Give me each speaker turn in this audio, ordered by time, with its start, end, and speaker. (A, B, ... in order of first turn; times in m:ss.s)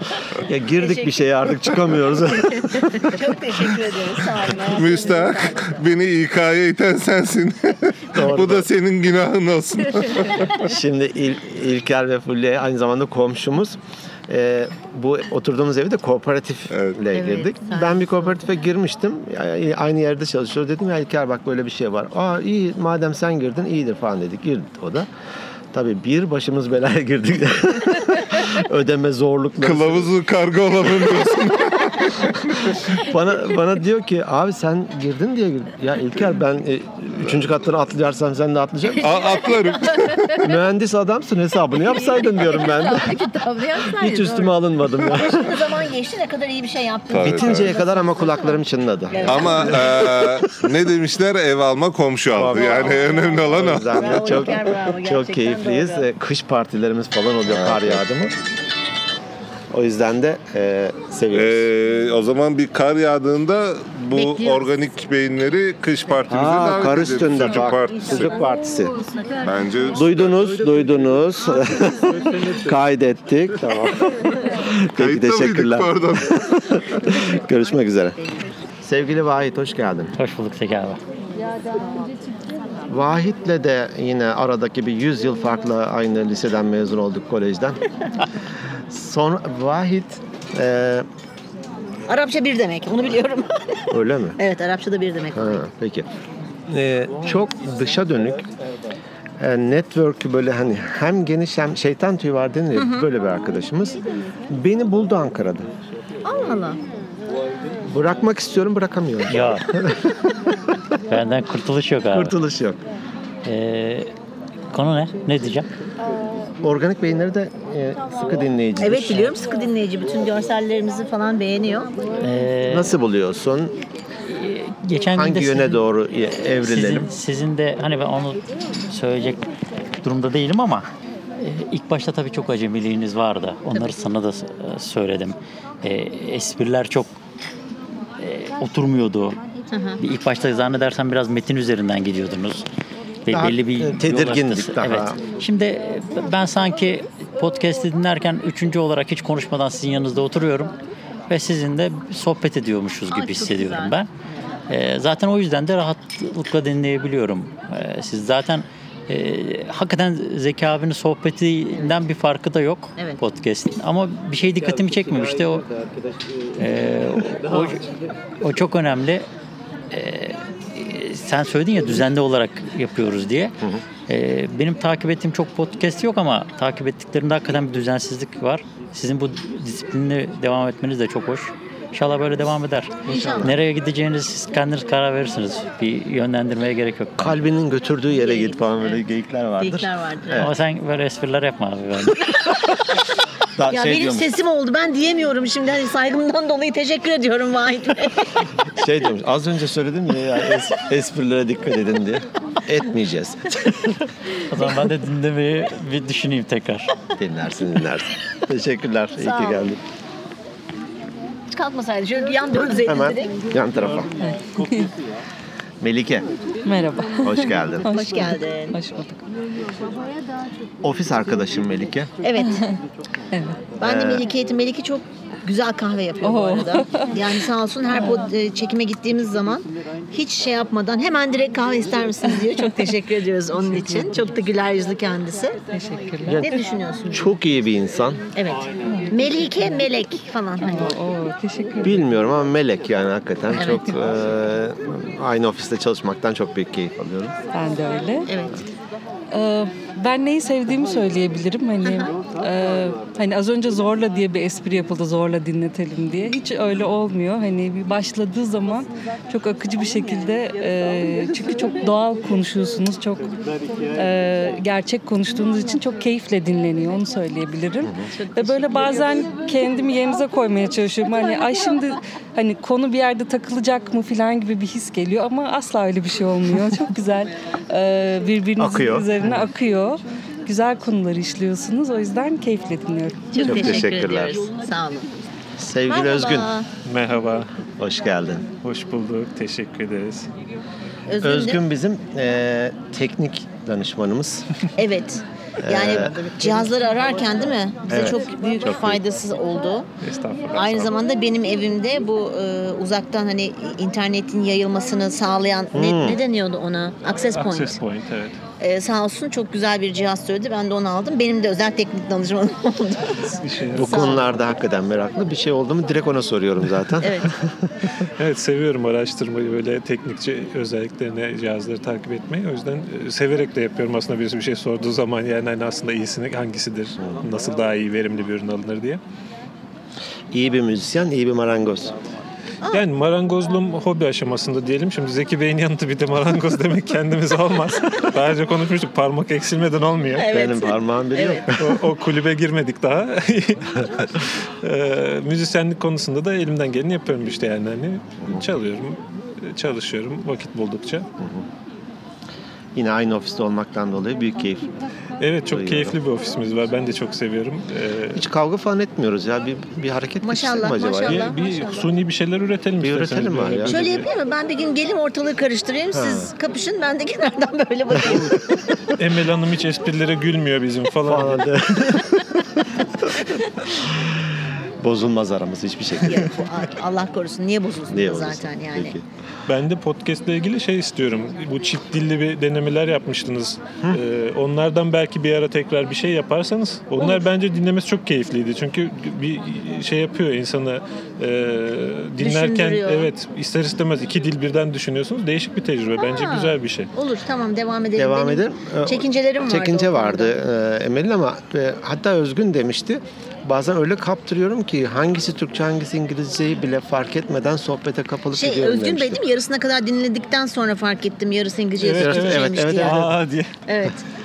0:00.5-0:03.0 A
0:00.8-0:01.2 B
0:03.1-0:05.8 B
0:04.7-0:10.4 C
0:08.2-0:08.7 A
0:10.6-0:25.1 A
0:17.2-0:18.3 B
0:25.7-0:30.2 A
0:29.6-0:31.8 C
0:33.0-0:39.2 A
0:39.0-0:40.0 C
0:40.4-0:43.2 A
0:43.8-0:45.5 A
0:45.1-0:48.5 B
0:47.1-0:47.7 C
0:47.2-0:50.2 A
0:49.1-0:50.3 B
0:49.2-0:54.3 C
0:52.3-0:58.3 A
0:52.6-0:56.1 B
0:57.5-0:58.0 C
0:59.7-1:01.7 A
1:01.3-1:08.3 C
1:06.3-1:09.0 A
1:09.4-1:10.5 C
1:09.9-1:18.2 A
1:15.0-1:16.3 C
1:18.8-1:20.1 A
1:20.2-1:21.0 D
1:22.9-1:27.8 A
1:28.9-1:31.1 A
1:32.1-1:33.6 B
1:33.9-1:34.4 A
1:34.4-1:35.6 B
1:35.3-1:36.1 A
1:36.7-1:38.5 A
1:39.4-1:45.7 A
1:42.8-1:43.0 B
1:46.2-1:46.8 B
1:47.9-1:50.0 A
1:49.3-1:49.6 D
1:51.1-1:52.3 D
1:52.1-1:52.8 A
1:53.4-1:54.1 D
1:54.7-1:55.7 D
1:56.6-1:59.4 A
1:58.8-2:01.9 B
2:02.2-2:03.0 D
2:02.7-2:03.8 A
2:04.3-2:05.8 D
2:05.2-2:07.1 A
2:06.6-2:09.4 D
2:10.0-2:10.9 D
2:11.4-2:17.2 D
2:18.2-2:19.4 D
2:19.7-2:20.0 B
2:20.0-2:22.7 D
2:23.2-2:30.8 D
2:23.3-2:25.2 A
2:31.3-2:34.1 D
2:33.1-2:34.4 B
2:34.7-2:45.6 D
2:43.0-2:43.2 B
2:46.6-2:47.8 D
2:48.4-2:49.3 D
2:49.9-2:53.5 D
2:54.1-3:07.4 D
3:03.1-3:03.6 B
3:03.2-3:03.5 A
3:07.2-3:10.5 A
3:08.2-3:09.0 B
3:09.6-3:10.5 B
3:10.4-3:12.1 D
3:13.6-3:14.3 A
3:13.7-3:18.3 B
3:18.8-3:23.8 A
3:24.5-3:26.9 D
3:27.2-3:29.8 A
3:29.2-3:29.6 B
3:31.5-3:33.3 B
3:32.8-3:34.1 A
3:35.8-3:36.3 A
3:37.2-3:37.9 A
3:37.9-3:38.8 B
3:40.8-3:42.1 A
3:42.2-3:42.6 B
3:43.8-3:55.6 B
3:43.8-3:44.2 A
3:56.3-3:56.6 A
3:56.4-3:57.3 B
3:57.1-3:58.2 A
3:58.4-4:00.8 B
4:01.8-4:07.3 A
4:03.5-4:03.9 B
4:07.6-4:08.3 E
4:08.3-4:08.6 B
4:09.3-4:23.2 E
4:11.8-4:12.1 B
4:24.0-4:27.9 E
4:28.2-4:29.0 B
4:28.4-4:43.3 E
4:38.6-4:39.2 A
4:43.3-4:45.1 B
4:43.4-4:44.4 A
4:45.6-4:46.5 A
4:45.9-4:46.7 B
4:46.8-4:47.5 F
4:47.8-4:48.5 A
4:48.6-4:50.3 F
4:51.1-4:51.6 B
4:51.2-4:54.5 A
4:54.8-4:59.9 B
4:55.6-4:56.3 A
4:57.9-4:59.0 A
5:00.0-5:00.9 F
5:00.5-5:07.8 B
5:05.7-5:06.2 A
5:07.3-5:08.4 F
5:08.6-5:13.2 B
5:13.4-5:14.4 F
5:13.8-5:14.2 B
5:13.8-5:17.4 A
5:17.0-5:17.3 B
5:18.2-5:29.0 F
5:30.3-5:32.0 A
5:32.7-5:40.3 F
5:40.2-5:41.5 B
5:40.3-5:41.6 A
5:41.6-5:43.9 F
5:44.6-5:51.1 F
5:51.2-5:51.4 A
5:52.8-5:54.7 A
5:55.2-5:58.2 F
5:55.5-5:56.0 A
5:58.2-6:01.4 A
6:00.2-6:01.8 B
6:01.0-6:04.1 F
6:02.8-6:03.8 A
6:03.6-6:08.4 B
6:05.9-6:06.3 A
6:08.0-6:08.3 A
6:09.0-6:11.4 F
6:11.0-6:12.1 A
6:14.8-6:16.3 A
6:16.0-6:19.0 B
6:17.9-6:19.0 A
6:19.5-6:36.9 F
6:32.2-6:33.1 B
6:36.0-6:40.4 B
6:38.0-6:49.2 A
6:48.3-6:53.1 B
6:51.8-6:53.5 F
6:51.9-6:53.1 A
6:53.7-6:54.0 B